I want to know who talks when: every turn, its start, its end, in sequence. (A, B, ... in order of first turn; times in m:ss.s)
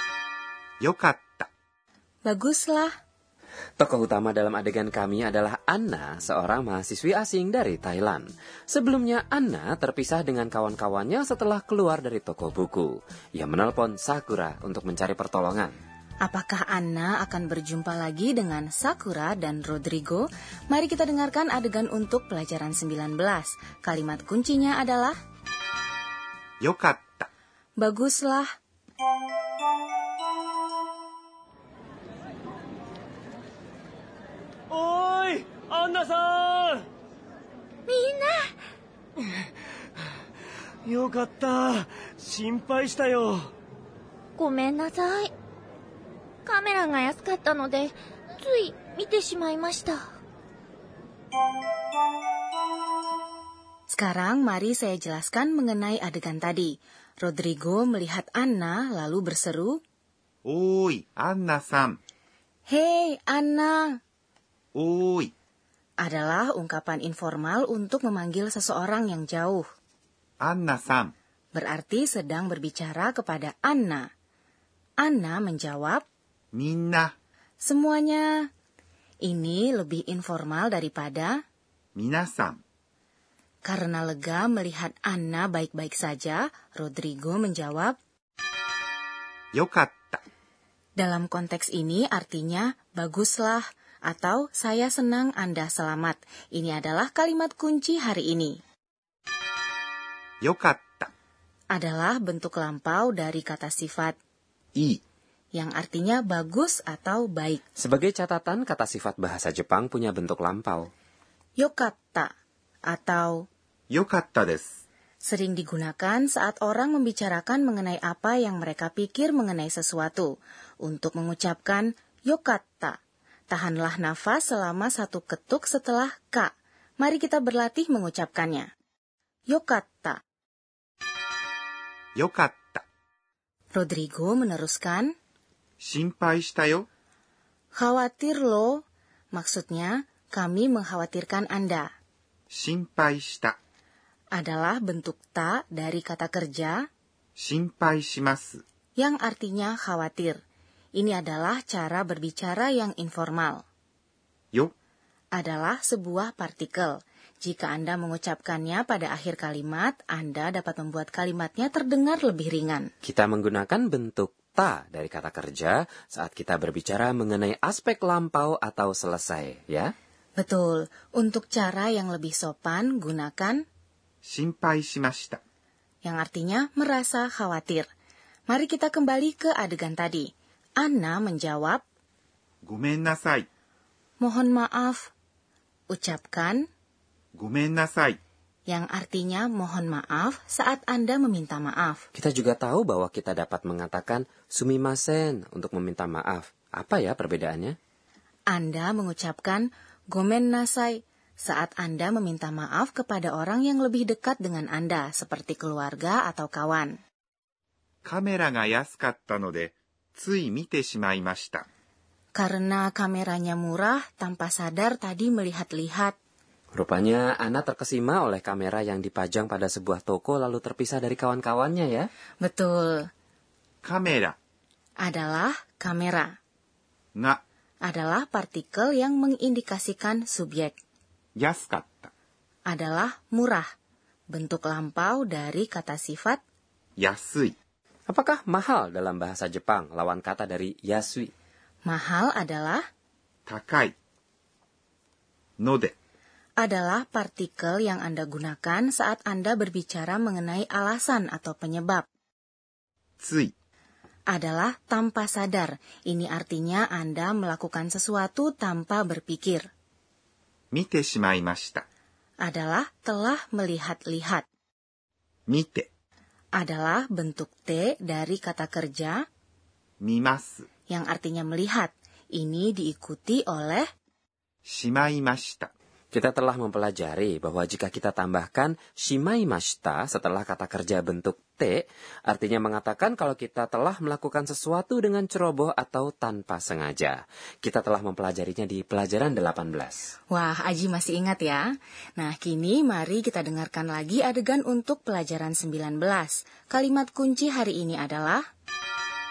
0:00.8-0:01.5 A
0:02.2-0:02.9 B
0:03.8-0:15.8 C
0:16.2-0:25.2 B
0:26.6-0:27.3 A
0:27.8-0:28.5 B
0:34.7-0:36.9 D
0:37.9-0:38.5 E
0:40.8-0:43.5 D
0:44.4-0:45.3 E
0:46.4-0:50.0 E
0:53.9-0:59.8 B
1:00.4-1:02.0 A
1:02.7-1:04.0 B
1:04.7-1:05.3 A
1:06.0-1:09.6 B
1:10.4-1:11.1 A
1:11.5-1:14.1 B
1:15.0-1:16.0 B
1:16.5-1:17.1 A
1:17.6-1:18.5 B
1:19.2-1:21.4 B
1:22.0-1:22.6 A
1:23.6-1:28.0 B
1:29.5-1:30.2 A
1:31.0-1:38.6 B
1:40.4-1:41.1 A
1:41.7-1:44.2 B
1:44.7-1:45.0 A
1:45.5-1:47.6 B
1:47.8-1:50.9 C
1:51.6-1:52.3 B
1:52.9-1:53.4 B
1:53.9-1:54.7 A
1:55.2-2:03.0 B
2:03.5-2:08.7 B
2:09.5-2:10.2 B
2:12.2-2:12.8 A
2:13.7-2:15.1 B
2:15.8-2:16.9 A
2:17.7-2:21.9 B
2:22.5-2:23.6 A
2:24.3-2:26.9 B
2:27.4-2:28.6 A
2:29.0-2:30.4 B
2:31.0-2:33.6 B
2:35.3-2:42.9 B
2:43.0-2:49.9 C
2:50.4-2:53.6 B
2:54.2-2:55.4 A
2:56.0-2:57.9 B
2:58.5-3:00.3 B
3:00.8-3:01.8 B
3:02.6-3:03.5 A
3:04.2-3:05.1 B
3:05.9-3:06.7 B
3:07.3-3:08.2 A
3:08.7-3:12.0 B
3:12.1-3:17.8 C
3:18.5-3:27.0 B
3:28.0-3:31.6 A
3:32.4-3:36.2 B
3:36.7-3:42.1 C
3:42.4-3:43.1 B
3:43.8-3:44.4 A
3:45.0-3:46.4 B
3:47.1-3:47.4 A
3:47.8-3:50.7 B
3:51.4-3:52.1 A
3:52.7-3:53.7 B
3:54.3-3:56.4 B
3:57.0-3:57.5 A
3:58.1-4:01.3 C
4:01.8-4:02.8 B
4:03.5-4:03.9 A
4:05.6-4:05.9 A
4:06.6-4:12.1 B
4:13.2-4:13.5 A
4:14.3-4:19.6 B
4:20.7-4:21.8 A
4:22.4-4:24.4 B
4:25.5-4:25.9 A
4:26.6-4:29.2 B
4:30.0-4:30.7 A
4:30.9-4:33.9 B
4:34.7-4:35.7 A
4:36.1-4:50.1 C
4:50.3-4:58.4 B